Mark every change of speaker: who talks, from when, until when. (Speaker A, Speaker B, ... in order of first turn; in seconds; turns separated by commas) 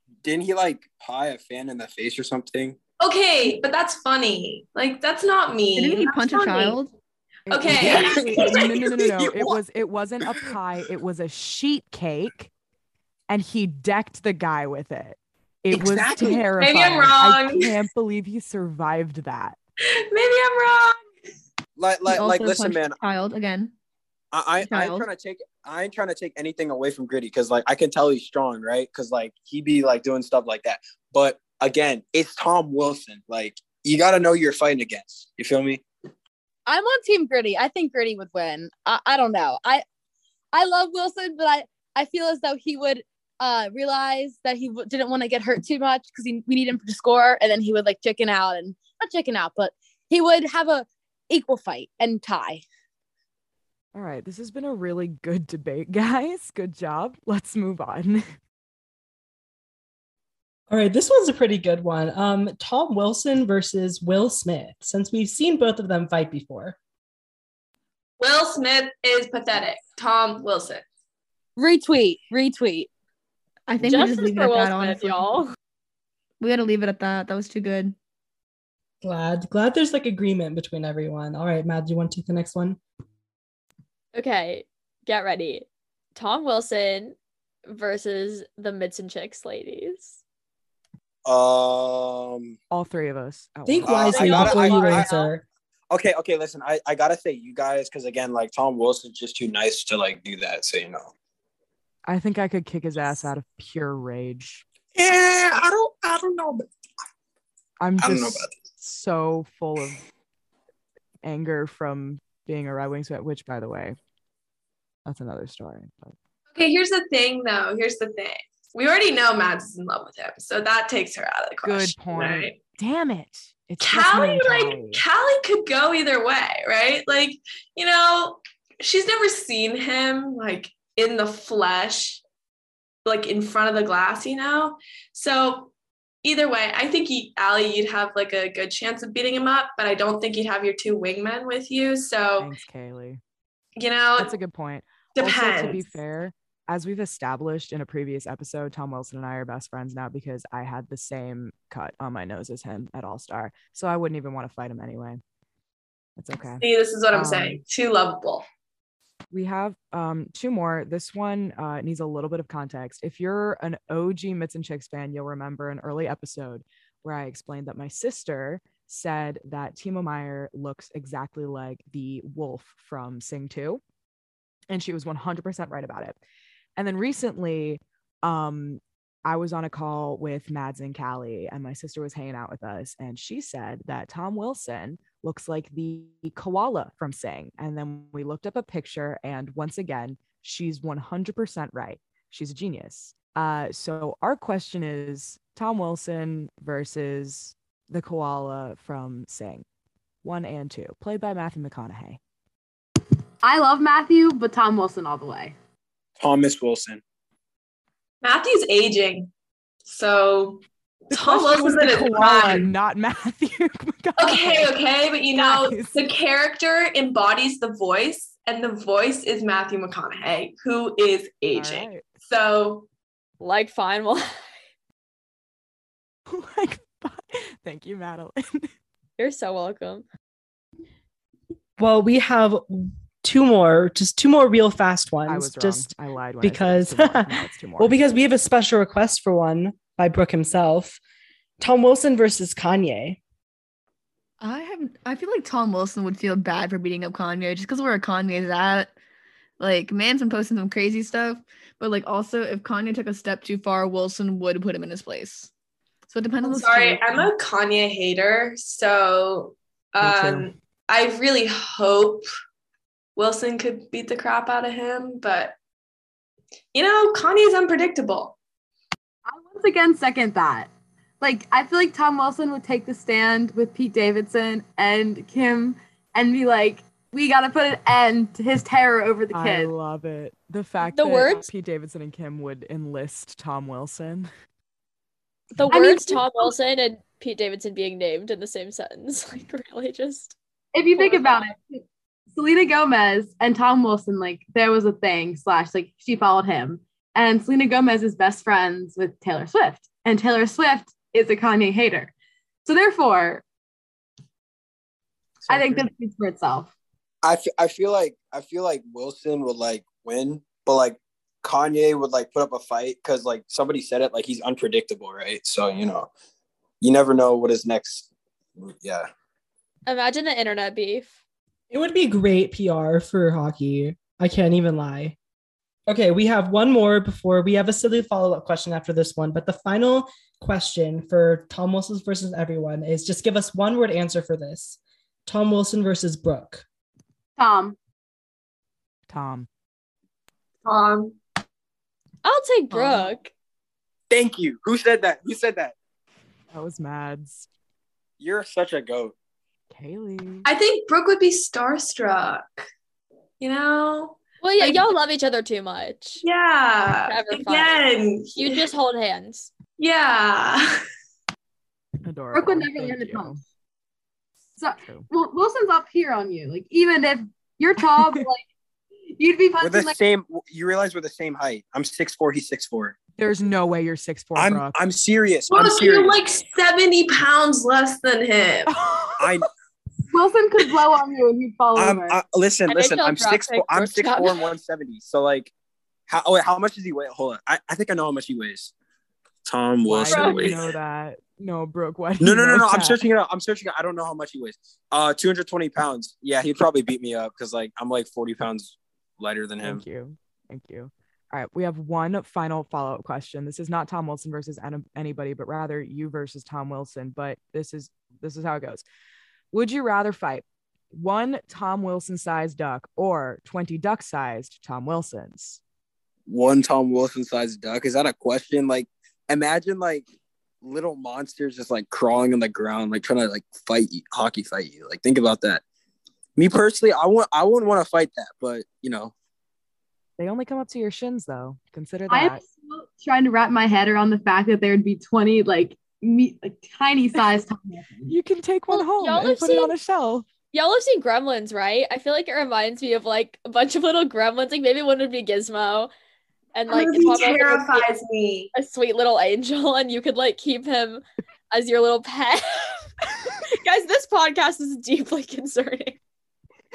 Speaker A: 0.2-2.8, Speaker B: 3.0-6.8, Speaker C: 5.8-6.9, Speaker D: 7.5-12.5, Speaker B: 7.5-8.9, Speaker A: 7.7-8.6, Speaker A: 9.1-9.6, Speaker D: 13.3-19.6, Speaker B: 15.7-17.8, Speaker B: 20.1-21.0, Speaker A: 21.8-23.0, Speaker C: 22.1-23.7, Speaker A: 24.3-35.8, Speaker C: 24.6-25.1, Speaker E: 36.7-39.8, Speaker E: 40.5-52.6, Speaker D: 53.9-58.3, Speaker F: 60.7-66.8, Speaker B: 68.2-70.8, Speaker E: 71.6-72.9, Speaker C: 73.7-75.3, Speaker G: 73.8-75.5, Speaker C: 76.4-78.0, Speaker F: 79.0-82.8, Speaker G: 84.2-90.2, Speaker A: 91.3-92.6, Speaker D: 92.7-94.5, Speaker F: 93.7-95.4, Speaker A: 93.8-95.1, Speaker G: 94.5-95.0, Speaker A: 95.9-101.1, Speaker D: 102.1-104.7, Speaker A: 104.9-106.7, Speaker D: 107.8-110.0, Speaker A: 108.0-108.5, Speaker D: 111.2-114.0, Speaker D: 115.1-116.2, Speaker B: 116.5-122.6, Speaker D: 121.6-125.0, Speaker B: 123.8-132.2, Speaker B: 133.1-135.7, Speaker B: 136.2-142.5, Speaker D: 142.4-143.2, Speaker B: 143.8-144.3, Speaker D: 144.2-155.2, Speaker B: 145.2-145.8, Speaker D: 156.2-157.6, Speaker B: 156.6-158.4, Speaker D: 159.3-173.8, Speaker D: 174.7-176.2, Speaker D: 176.8-199.7, Speaker D: 200.2-202.2, Speaker H: 203.4-205.6, Speaker A: 206.2-207.0, Speaker B: 208.2-209.3, Speaker B: 209.9-212.7, Speaker D: 211.1-216.1, Speaker B: 214.2-222.9, Speaker D: 221.5-222.0, Speaker G: 223.4-224.6, Speaker D: 226.3-228.7, Speaker G: 229.2-230.1, Speaker F: 231.8-235.9, Speaker D: 235.3-238.0, Speaker F: 236.4-241.0, Speaker F: 241.6-243.2, Speaker C: 244.4-248.9, Speaker C: 249.6-255.5, Speaker C: 256.1-257.2, Speaker B: 256.4-262.3, Speaker D: 260.0-260.5, Speaker B: 263.2-265.6, Speaker B: 266.7-268.4, Speaker H: 269.3-270.7, Speaker H: 271.2-279.7, Speaker D: 279.3-284.3, Speaker G: 280.8-281.4, Speaker G: 285.6-290.4, Speaker H: 285.7-286.5, Speaker H: 290.7-302.1, Speaker G: 291.0-291.4, Speaker H: 302.6-303.4, Speaker D: 305.5-305.9, Speaker H: 305.5-306.7, Speaker A: 307.2-316.1, Speaker A: 316.8-318.1, Speaker A: 318.6-319.1, Speaker G: 319.9-321.2, Speaker F: 321.7-325.2, Speaker F: 325.9-336.6, Speaker H: 337.4-337.8, Speaker D: 339.1-339.5, Speaker B: 340.6-341.2, Speaker G: 342.2-343.3, Speaker A: 344.1-345.7, Speaker D: 346.5-347.5, Speaker A: 348.2-349.1, Speaker D: 349.7-350.5, Speaker B: 350.4-352.7, Speaker B: 353.4-354.9, Speaker G: 354.4-356.2, Speaker B: 356.2-358.7, Speaker G: 356.9-357.8, Speaker G: 358.4-359.5, Speaker B: 359.8-360.8, Speaker D: 362.0-363.4, Speaker H: 362.3-363.4, Speaker H: 364.6-368.4, Speaker D: 367.9-368.3, Speaker H: 369.2-369.9, Speaker A: 369.6-372.9, Speaker D: 373.2-374.8, Speaker A: 374.4-376.2, Speaker B: 375.5-378.7, Speaker D: 378.7-379.3, Speaker A: 379.2-379.5, Speaker H: 380.1-382.2, Speaker A: 381.8-385.5, Speaker G: 382.7-384.3, Speaker A: 386.1-388.7, Speaker A: 389.5-390.7, Speaker D: 389.9-393.0, Speaker H: 390.2-390.5, Speaker A: 392.2-399.8, Speaker D: 399.6-408.9, Speaker D: 409.5-415.6, Speaker A: 416.3-420.1, Speaker A: 420.6-425.6, Speaker A: 426.4-429.1, Speaker D: 430.2-432.4, Speaker H: 432.1-438.1, Speaker D: 438.1-440.3, Speaker G: 438.7-439.7, Speaker G: 440.5-445.9, Speaker G: 446.6-447.9, Speaker B: 446.7-448.5, Speaker G: 448.5-452.8, Speaker G: 453.5-456.0